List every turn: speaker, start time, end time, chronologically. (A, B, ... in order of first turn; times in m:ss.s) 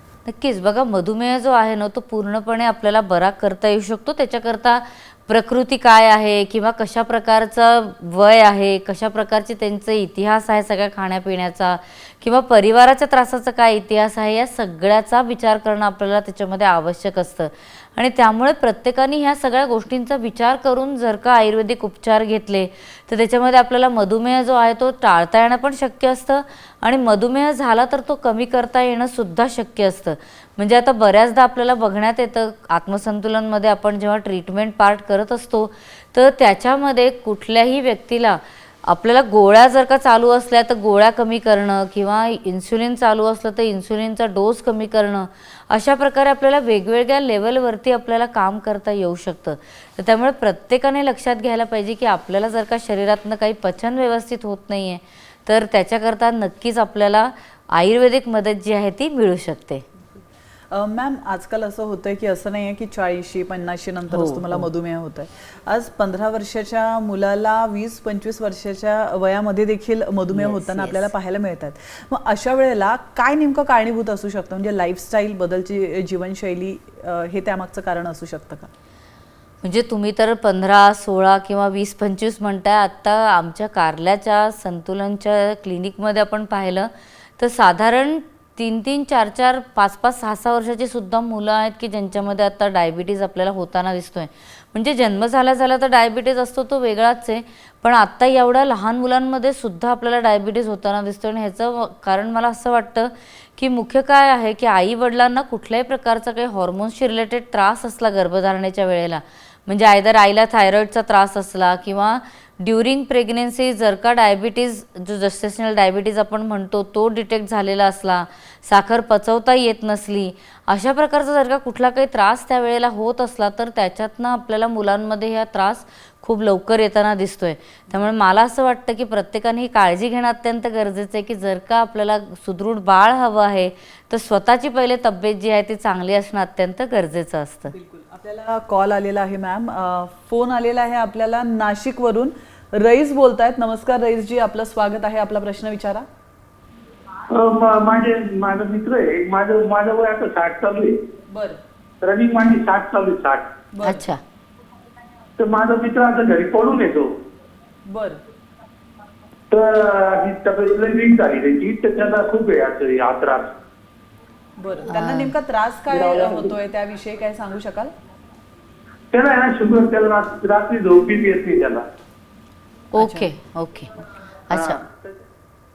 0:00.2-0:59.8 A
1:00.7-1:18.7 B
1:04.1-1:04.7 A
1:10.3-1:11.1 A
1:19.6-2:17.7 A
2:17.7-2:26.0 B
2:27.3-2:31.0 C
2:31.3-2:31.6 B
2:32.0-2:33.5 C
2:33.7-2:34.1 B
2:33.8-2:34.2 A
2:35.4-2:37.1 C
2:37.9-2:38.2 B
2:39.5-2:43.5 C
2:44.6-2:47.9 B
2:44.9-2:45.3 A
2:45.9-2:46.5 C
2:49.1-2:51.8 C
2:52.9-2:54.0 A
2:53.0-2:53.3 B
2:54.5-2:54.8 A
2:54.5-2:55.1 C